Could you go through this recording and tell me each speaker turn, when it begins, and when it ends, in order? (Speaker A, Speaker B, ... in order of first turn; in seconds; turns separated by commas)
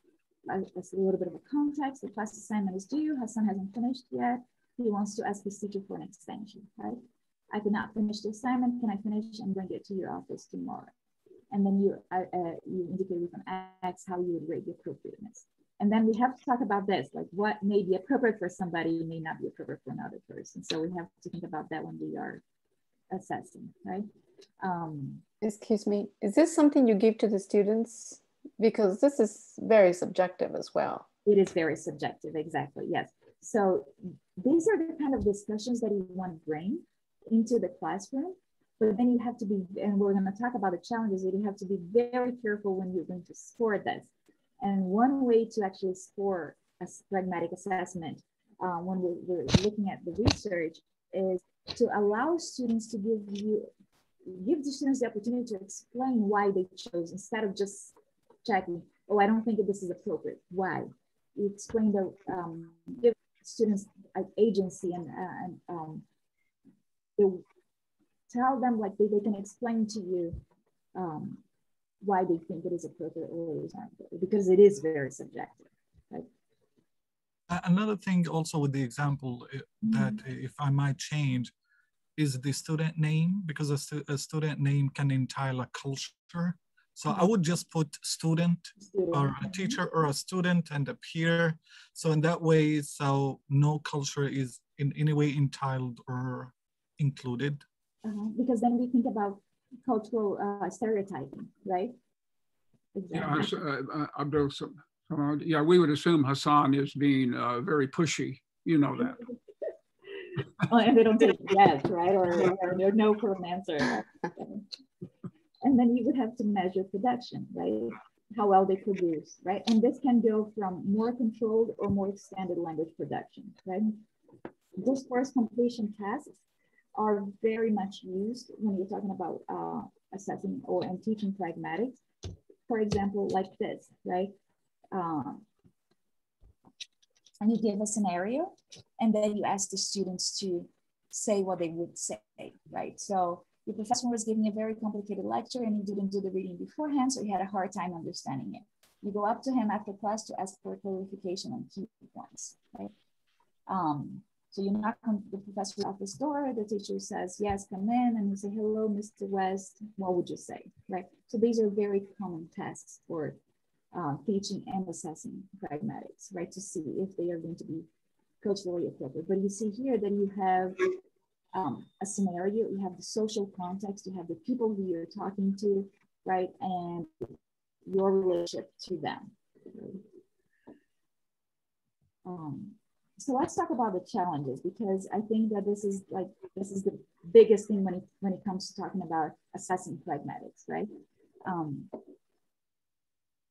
Speaker A: 0.5-10.9, Speaker A: 11.5-22.4, Speaker A: 23.1-24.1, Speaker A: 24.6-25.2, Speaker B: 25.4-31.1, Speaker A: 31.2-53.7, Speaker A: 54.2-66.0, Speaker A: 67.2-67.4, Speaker A: 68.3-70.4, Speaker A: 70.9-71.4, Speaker A: 72.0-76.3, Speaker C: 77.5-81.5, Speaker A: 79.8-80.2, Speaker C: 82.2-97.6, Speaker A: 88.8-89.8, Speaker A: 98.0-101.9, Speaker A: 102.9-103.5, Speaker D: 103.1-109.2, Speaker A: 109.0-109.3, Speaker A: 110.6-114.7, Speaker A: 115.6-124.0, Speaker A: 124.8-126.4, Speaker A: 126.9-132.0, Speaker A: 132.7-134.3, Speaker A: 134.9-135.4, Speaker A: 137.4-152.9, Speaker A: 153.7-163.4, Speaker A: 163.9-167.9, Speaker A: 168.4-170.9, Speaker A: 171.5-180.0, Speaker A: 182.2-190.9, Speaker A: 191.4-192.0